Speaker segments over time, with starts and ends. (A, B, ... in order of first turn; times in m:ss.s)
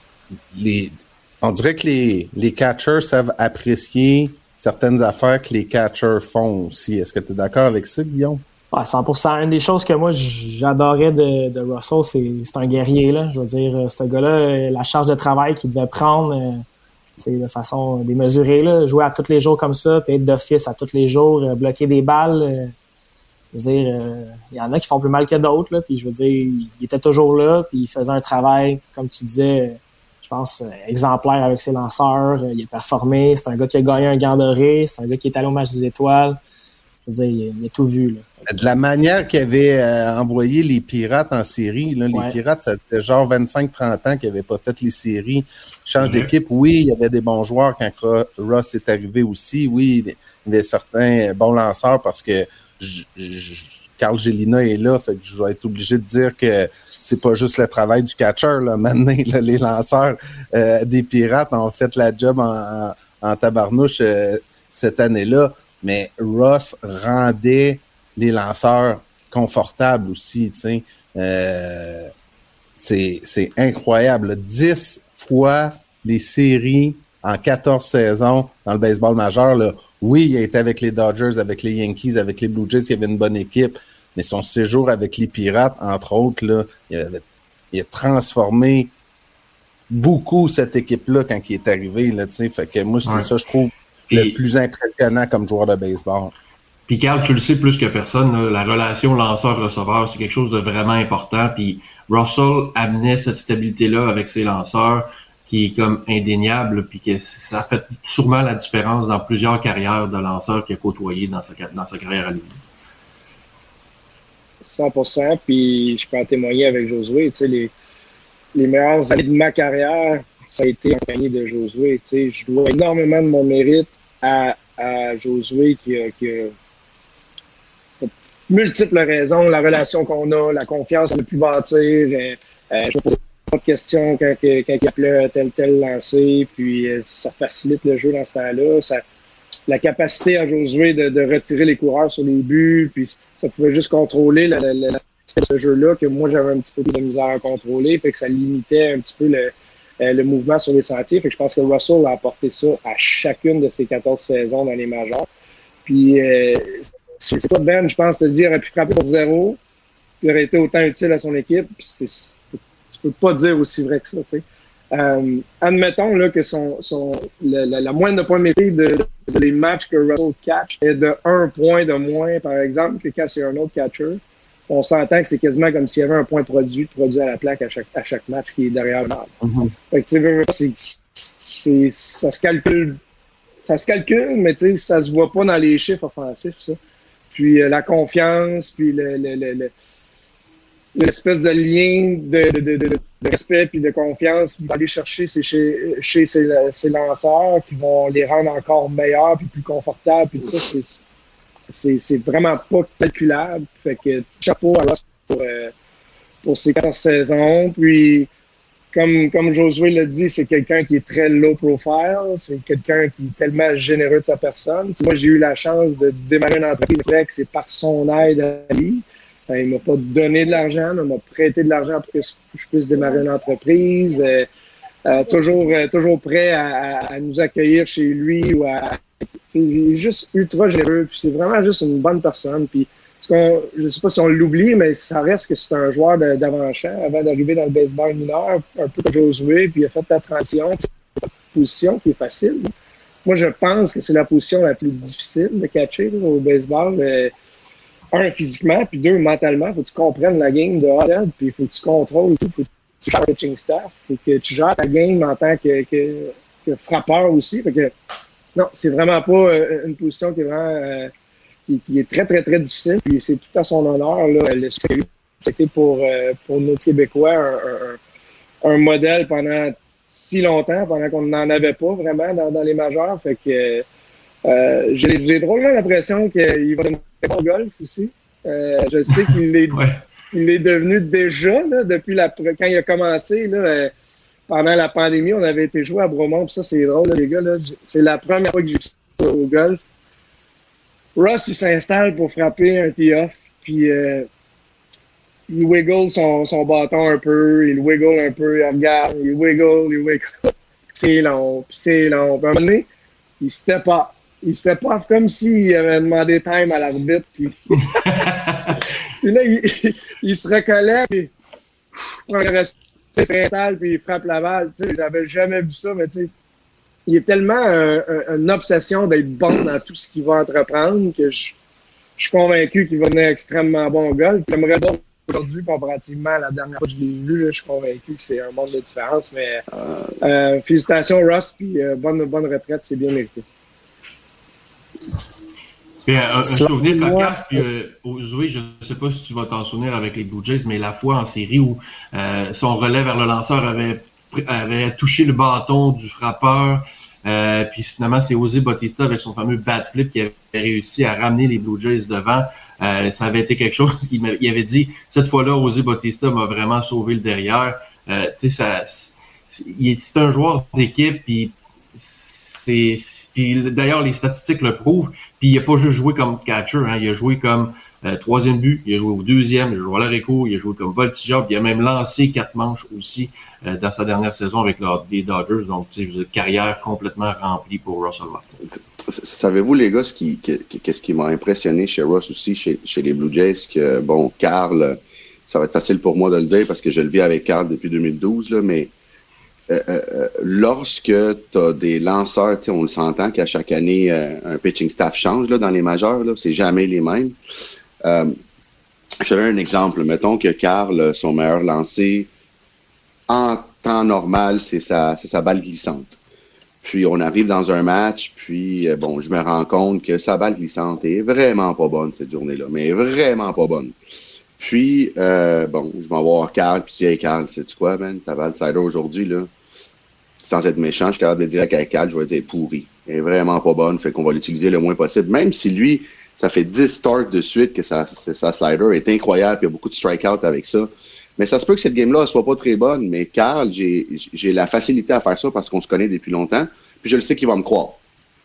0:00.5-0:08.4 A
0:08.7-0:16.6 B
0:17.2-0:22.7 B
0:23.5-0:36.4 B
0:37.0-0:38.5 B
0:38.5-1:12.1 A
0:46.0-0:46.3 C
1:12.7-1:28.9 A
1:29.9-1:36.3 A
1:34.1-1:34.3 C
1:36.9-1:52.6 C
1:54.6-1:57.7 D
1:58.5-2:06.5 D
2:08.0-2:19.0 D
2:19.7-2:35.3 D
2:35.8-2:39.6 D
2:40.2-2:59.3 D
2:59.4-2:59.7 A
2:59.9-3:03.0 D
3:03.6-3:06.8 D
3:07.3-3:09.7 D
3:10.9-3:21.0 D
3:21.7-3:25.7 D
3:26.4-3:28.3 D
3:28.9-3:44.5 D
3:45.0-4:02.7 D
4:03.2-4:07.3 D
4:08.1-4:17.9 D
4:18.6-4:21.1 D
4:21.7-4:28.0 D
4:28.6-4:33.8 D
4:34.4-4:39.8 D
4:39.7-4:40.0 C
4:40.3-4:43.9 D
4:44.5-4:49.8 D
4:51.2-4:54.3 D
4:55.5-5:02.8 D
5:03.4-5:08.3 D
5:07.9-5:08.6 C
5:09.2-5:11.3 D
5:12.3-5:16.3 D
5:17.1-5:21.6 D
5:22.2-5:29.6 D
5:30.2-5:33.4 D
5:36.0-6:18.6 C
5:36.4-5:37.6 A
6:19.0-6:28.9 E
6:29.7-6:37.4 E
6:38.0-6:38.4 E
6:39.2-6:42.3 E
6:43.3-6:46.2 E
6:46.8-6:53.9 E
6:54.6-6:59.5 E
7:00.4-7:18.0 E